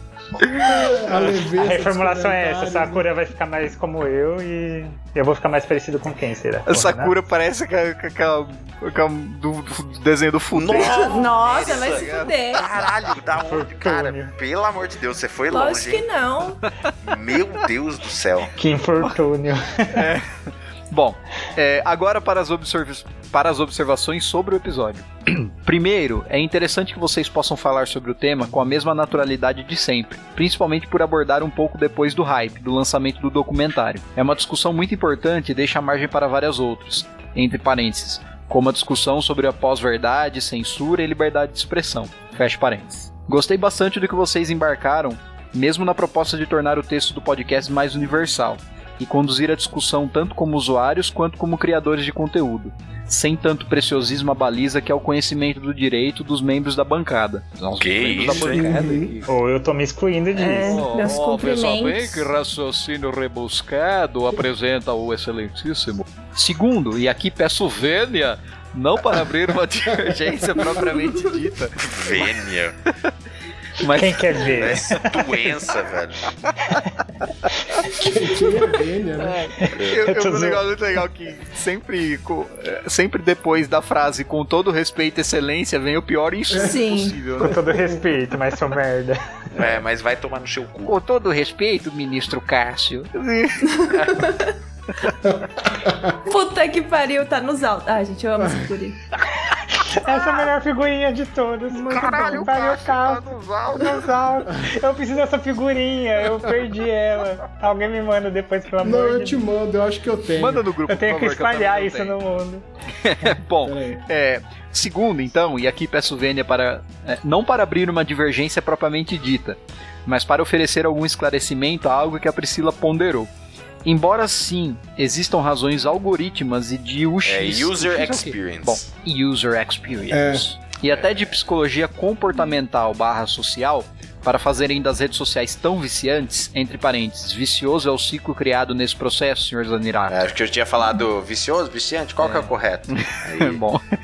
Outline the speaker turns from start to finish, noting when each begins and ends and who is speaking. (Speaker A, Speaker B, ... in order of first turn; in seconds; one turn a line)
Speaker A: 0.6-3.1
Speaker B: 1.2-7.1
Speaker C: 6.7-12.3
Speaker D: 10.5-16.1
Speaker E: 10.7-12.8
Speaker B: 13.3-14.3
Speaker E: 15.5-16.6
Speaker D: 17.0-18.5
Speaker B: 18.5-20.1
Speaker C: 19.9-59.3
Speaker D: 57.8-58.8
Speaker A: 58.4-59.1
Speaker B: 59.3-60.9
Speaker E: 60.3-62.3
Speaker C: 60.6-72.4
Speaker D: 71.8-72.7
Speaker C: 73.8-75.0
Speaker B: 73.8-75.2
Speaker D: 74.5-76.3
Speaker A: 77.9-79.4
Speaker C: 79.2-87.6
Speaker B: 79.6-80.6
Speaker E: 86.5-87.2
Speaker B: 87.4-89.2
Speaker D: 89.5-90.9
Speaker C: 90.8-94.0
Speaker E: 93.7-94.5
Speaker A: 95.3-96.2
Speaker E: 96.2-99.0
Speaker B: 99.7-109.4
Speaker C: 101.7-104.0
Speaker A: 108.8-110.7
Speaker C: 110.3-112.2
Speaker B: 110.9-112.6
Speaker C: 113.0-123.3
Speaker A: 113.6-114.0
Speaker C: 123.8-140.2
Speaker D: 127.2-128.8
Speaker A: 130.1-130.5
Speaker D: 140.1-143.6
Speaker C: 142.2-143.8